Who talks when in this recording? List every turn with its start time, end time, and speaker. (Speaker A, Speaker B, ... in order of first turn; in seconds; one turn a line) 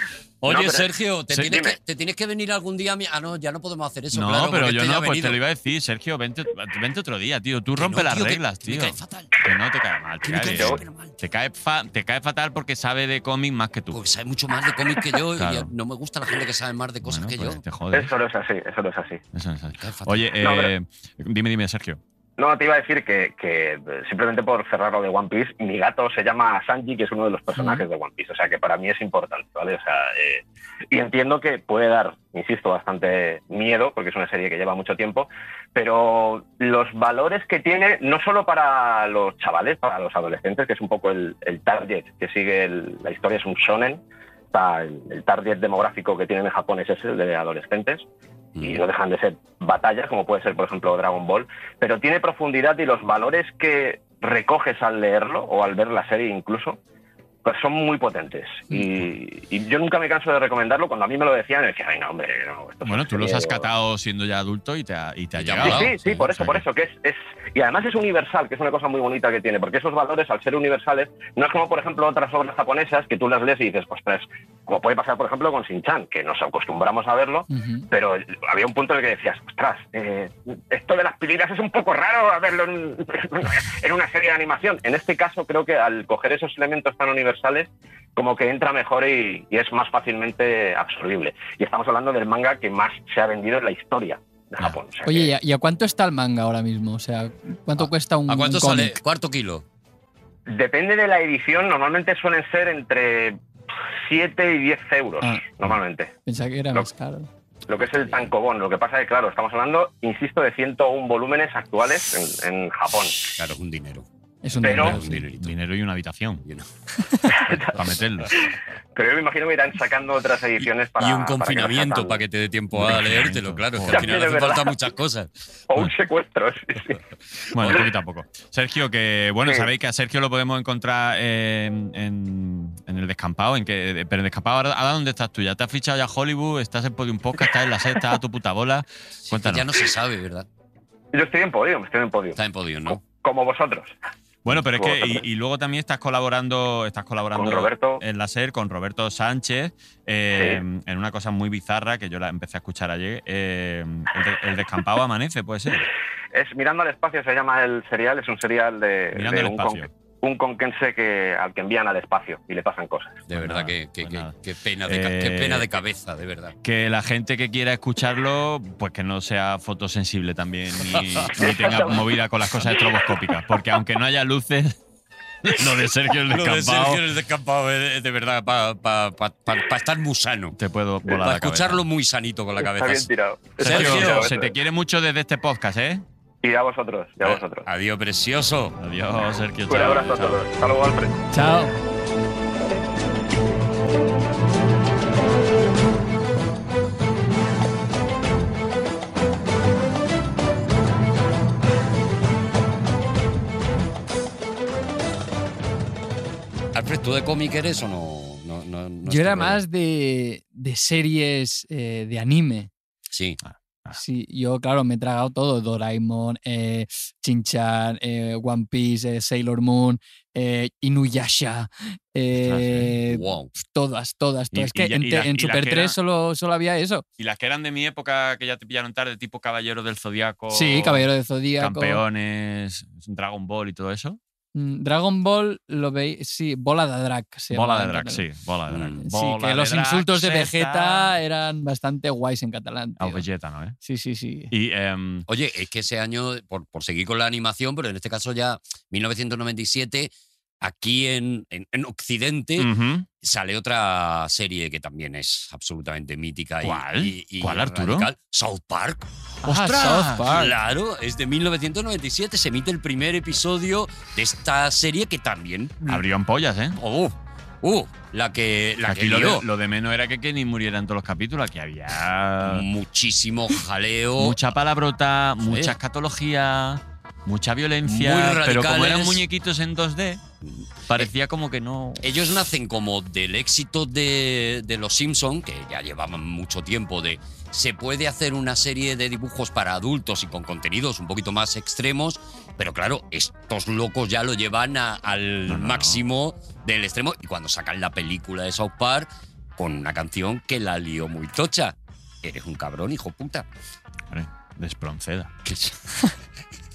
Speaker A: 0.4-5.4
Speaker B: 0.5-0.9
Speaker C: 4.1-14.0
Speaker A: 7.7-9.4
Speaker A: 10.2-11.2
Speaker B: 10.5-10.8
Speaker A: 13.9-17.6
Speaker C: 15.3-15.7
Speaker C: 17.0-18.1
Speaker B: 17.9-19.2
Speaker C: 19.3-22.0
Speaker A: 19.8-20.3
Speaker B: 20.4-20.7
Speaker B: 22.4-44.0
Speaker B: 44.5-48.0
Speaker A: 48.5-48.8
Speaker B: 48.6-56.8
Speaker B: 57.4-63.6
Speaker C: 62.8-66.6
Speaker A: 65.4-66.0
Speaker B: 65.6-95.3
Speaker D: 77.5-77.9
Speaker D: 95.0-99.0
Speaker A: 97.8-99.6
Speaker B: 100.5-103.4
Speaker B: 104.0-106.1
Speaker D: 105.2-105.6
Speaker D: 106.2-107.3
Speaker B: 107.7-113.3
Speaker A: 107.8-108.3
Speaker A: 113.3-114.0
Speaker D: 114.4-115.2
Speaker B: 114.6-114.9
Speaker A: 114.6-115.5
Speaker C: 114.7-116.4
Speaker D: 117.1-117.4
Speaker C: 117.4-118.4
Speaker B: 117.4-117.8
Speaker B: 118.9-122.2
Speaker A: 121.0-125.3
Speaker C: 122.7-124.1
Speaker B: 123.9-124.8
Speaker B: 125.7-127.0
Speaker C: 127.5-139.8
Speaker A: 139.2-140.5
Speaker B: 141.1-143.9
Speaker A: 142.3-143.0
Speaker C: 144.4-155.9
Speaker B: 144.5-145.2
Speaker B: 147.3-148.0
Speaker B: 150.3-150.6
Speaker B: 156.3-163.2
Speaker C: 159.1-159.9
Speaker A: 163.3-166.6
Speaker C: 163.3-164.3
Speaker C: 164.8-165.7
Speaker C: 166.6-174.7
Speaker A: 170.9-171.7
Speaker B: 171.3-172.0
Speaker C: 175.4-177.0
Speaker A: 176.3-184.3
Speaker C: 180.6-181.8
Speaker B: 182.6-184.5
Speaker C: 183.6-186.0
Speaker B: 186.4-187.6
Speaker A: 187.2-188.8
Speaker C: 188.8-190.4
Speaker B: 189.7-191.2
Speaker D: 191.3-191.7
Speaker A: 206.7-209.6
Speaker D: 209.0-212.7
Speaker A: 213.1-213.4
Speaker C: 213.4-214.0
Speaker D: 213.9-227.0
Speaker C: 222.4-222.9
Speaker A: 223.1-223.5
Speaker C: 224.5-226.0
Speaker C: 227.2-234.2
Speaker D: 230.5-232.0
Speaker D: 234.5-238.2
Speaker C: 237.5-241.2
Speaker A: 238.7-239.0
Speaker D: 239.0-243.2
Speaker C: 243.0-243.8
Speaker D: 243.8-244.5
Speaker C: 244.5-245.3
Speaker A: 245.3-252.7
Speaker C: 252.6-253.1
Speaker A: 253.2-259.3
Speaker C: 256.6-258.1
Speaker D: 259.4-260.5
Speaker C: 259.4-260.4
Speaker A: 260.2-266.0
Speaker C: 265.9-266.8
Speaker A: 266.7-269.5
Speaker C: 268.9-272.6
Speaker A: 272.4-274.4
Speaker C: 274.2-280.2
Speaker A: 275.4-275.8
Speaker A: 277.8-279.2
Speaker A: 280.4-281.1
Speaker C: 280.8-282.1
Speaker A: 282.0-303.5
Speaker C: 295.5-296.0
Speaker C: 304.1-305.3
Speaker A: 305.4-305.9